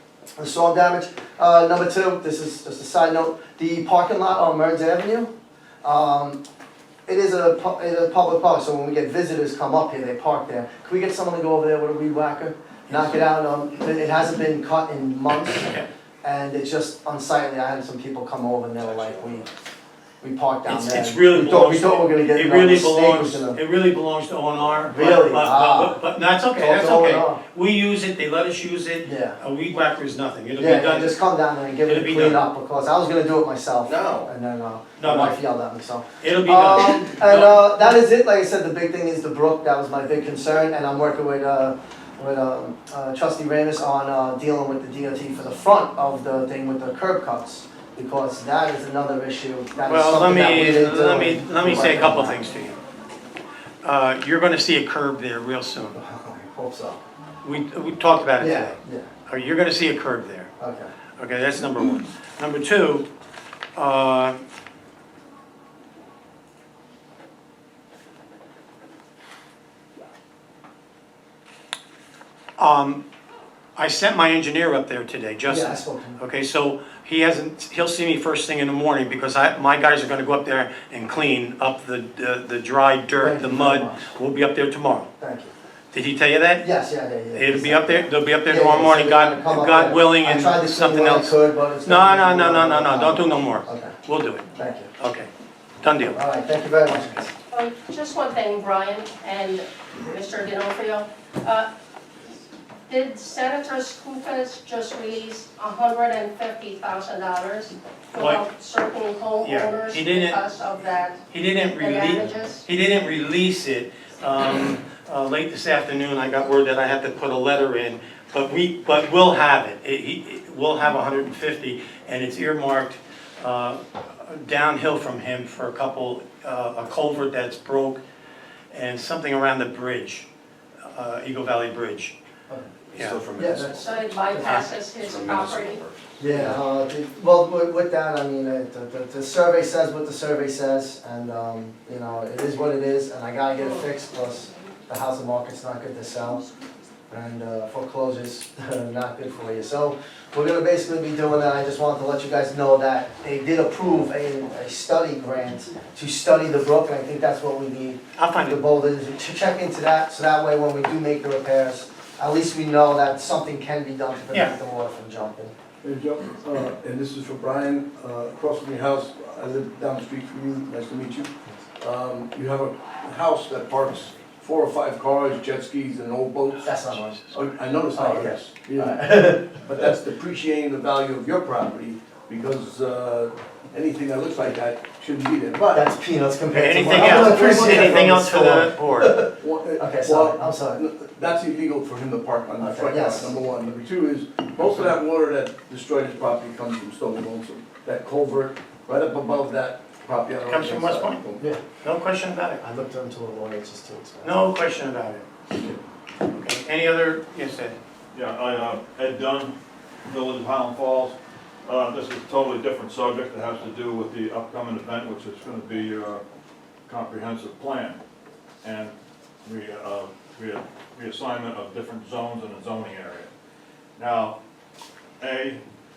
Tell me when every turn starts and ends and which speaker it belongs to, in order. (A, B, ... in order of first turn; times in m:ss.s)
0:00.4-0:05.3 A
0:05.8-0:06.4 A
0:07.1-0:15.7 A
0:16.2-0:19.5 A
0:20.2-0:23.6 A
0:20.6-0:31.2 B
0:24.9-0:26.0 A
0:26.5-0:27.4 A
0:29.0-0:29.4 A
0:30.6-0:52.4 A
0:31.8-0:32.4 B
0:33.8-0:34.3 C
0:35.0-0:35.4 B
0:36.2-0:37.9 B
0:49.8-0:52.8 B
0:53.8-0:56.0 B
0:55.9-0:57.0 A
0:57.4-1:00.5 B
0:58.4-0:59.1 A
1:00.6-1:00.9 A
1:01.2-1:03.0 B
1:03.8-1:04.4 B
1:12.6-1:13.0 B
1:13.8-1:25.1 B
1:15.5-1:16.2 A
1:23.2-1:24.1 A
1:25.2-1:25.5 A
1:25.9-1:26.7 B
1:26.6-1:33.9 A
1:27.3-1:35.3 B
1:34.5-1:34.9 A
1:35.8-1:36.2 B
1:36.1-1:37.3 A
1:37.5-1:41.7 D
1:42.9-1:52.7 D
1:48.1-1:48.4 B
1:49.4-1:50.4 B
1:51.3-2:08.0 B
2:08.7-2:10.3 B
2:10.9-2:12.1 B
2:12.9-2:16.4 C
2:12.9-2:13.4 B
2:13.4-2:14.6 A
2:13.7-2:15.8 D
2:16.2-2:26.4 A
2:27.1-2:45.5 A
2:38.2-2:38.6 B
2:45.8-2:56.8 E
2:56.6-2:57.2 A
2:57.3-3:05.9 E
2:57.9-2:59.8 A
3:05.7-3:10.8 A
3:06.5-3:09.2 B
3:06.9-3:08.1 E
3:09.1-3:21.4 E
3:12.6-3:13.3 A
3:20.4-3:21.3 B
3:21.8-3:22.6 B
3:22.6-3:24.3 A
3:24.2-3:25.2 B
3:26.3-3:27.8 B
3:28.1-3:29.5 F
3:30.0-3:36.2 F
3:36.9-3:38.0 F
3:38.6-3:43.3 F
3:44.0-3:44.4 F
3:45.2-3:45.6 F